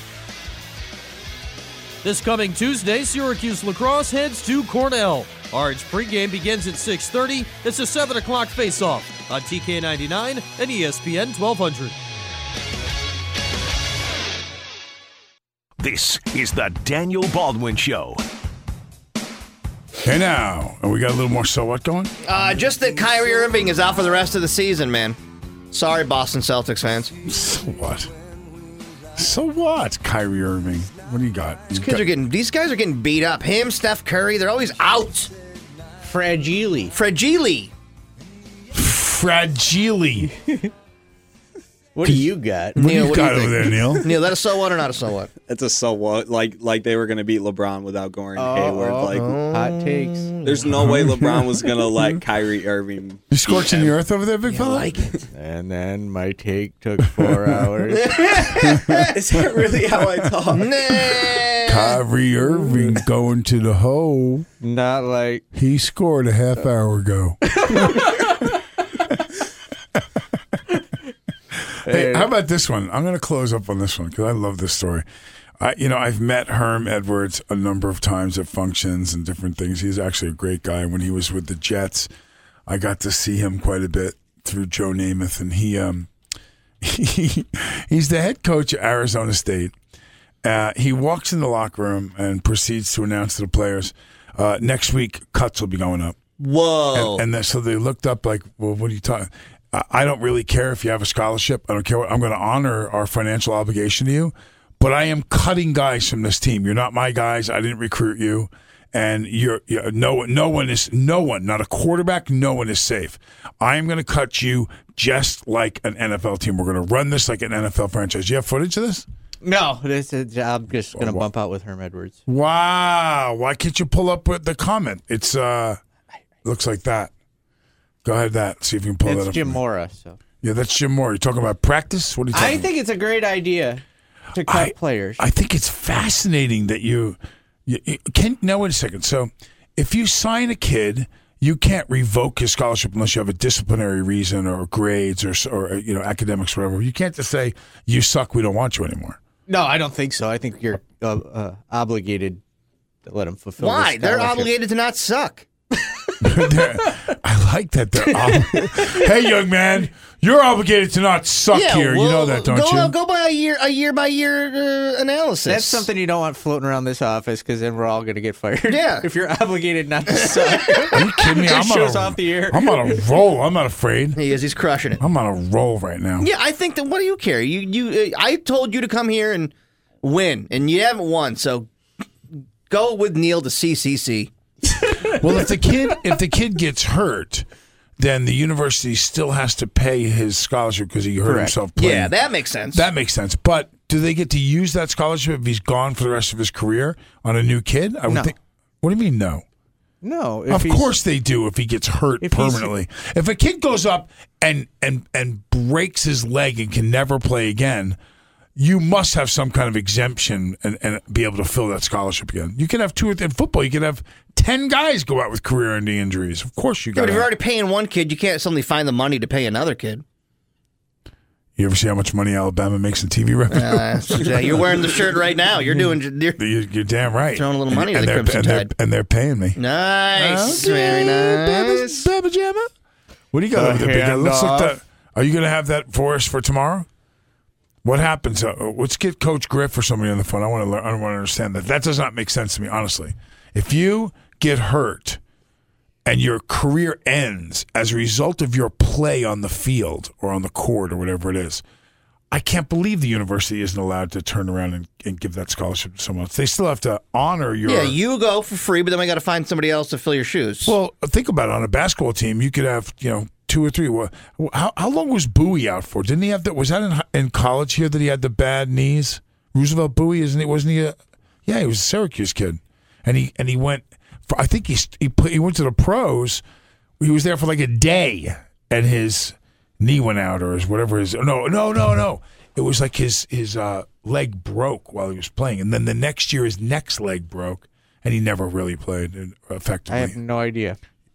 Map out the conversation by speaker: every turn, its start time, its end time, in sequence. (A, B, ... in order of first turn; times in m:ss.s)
0:02.0-0:11.9 A
0:15.8-0:18.2 B
0:20.0-0:22.1 C
0:22.2-0:25.2 D
0:25.7-0:27.1 D
0:27.2-0:28.1 C
0:29.2-0:32.0 C
0:31.7-0:35.3 D
0:36.0-0:36.9 E
0:36.9-0:37.7 D
0:38.7-0:40.3 C
0:40.4-0:40.7 E
0:41.9-0:43.2 E
0:42.0-0:44.1 C
0:42.7-0:45.3 D
0:45.5-0:49.4 F
0:48.4-0:50.3 E
0:49.1-0:50.6 D
0:50.4-0:53.9 F
0:50.7-0:51.5 C
0:53.3-0:55.1 C
0:54.5-0:55.1 D
0:55.3-0:58.3 E
0:58.0-0:59.1 D
0:58.5-0:59.1 C
0:59.1-1:01.2 F
1:00.5-1:02.0 D
1:01.6-1:04.5 C
1:04.6-1:05.4 E
1:05.5-1:08.3 C
1:07.6-1:08.3 E
1:11.8-1:12.3 E
1:11.8-1:15.0 C
1:15.6-1:22.1 C
1:22.7-1:26.1 C
1:26.8-1:29.7 C
1:30.4-1:36.2 C
1:36.4-1:37.2 D
1:36.9-1:59.0 C
1:59.4-2:02.2 E
2:01.0-2:01.2 C
2:02.3-2:05.8 C
2:06.4-2:07.1 C
2:08.0-2:09.6 C
2:09.0-2:10.2 E
2:10.4-2:12.7 C
2:12.3-2:13.8 E
2:14.4-2:15.2 E
2:14.4-2:29.2 C
2:29.5-2:32.4 E
2:33.0-2:34.5 E
2:33.6-2:35.4 D
2:36.2-2:42.9 C
2:38.3-2:38.9 E
2:41.5-2:45.9 D
2:45.4-2:53.0 E
2:48.7-2:49.1 D
2:50.4-2:50.9 D
2:50.9-2:54.2 C
2:54.1-2:55.0 D
2:55.0-2:56.3 C
2:56.2-3:01.7 D
3:02.7-3:04.3 D
3:05.1-3:07.4 C
3:08.0-3:12.1 C
3:11.2-3:11.6 E
3:11.8-3:12.9 D
3:12.7-3:19.4 C
3:18.1-3:18.3 E
3:20.0-3:20.9 E
3:20.5-3:28.0 C
3:22.2-3:22.7 E
3:28.6-3:37.3 C
3:36.9-3:40.0 D
3:41.6-3:44.9 C
3:43.5-3:46.4 D
3:45.7-3:49.6 C
3:47.3-3:48.7 D
3:49.6-3:52.1 D
3:50.1-3:52.7 C
3:53.3-3:56.9 C
3:53.5-3:54.8 E
3:57.8-4:05.2 C
4:06.0-4:11.6 C
4:12.3-4:18.0 C
4:17.6-4:20.7 D
4:20.6-4:36.4 C
4:37.0-4:50.2 C
4:49.9-4:50.8 E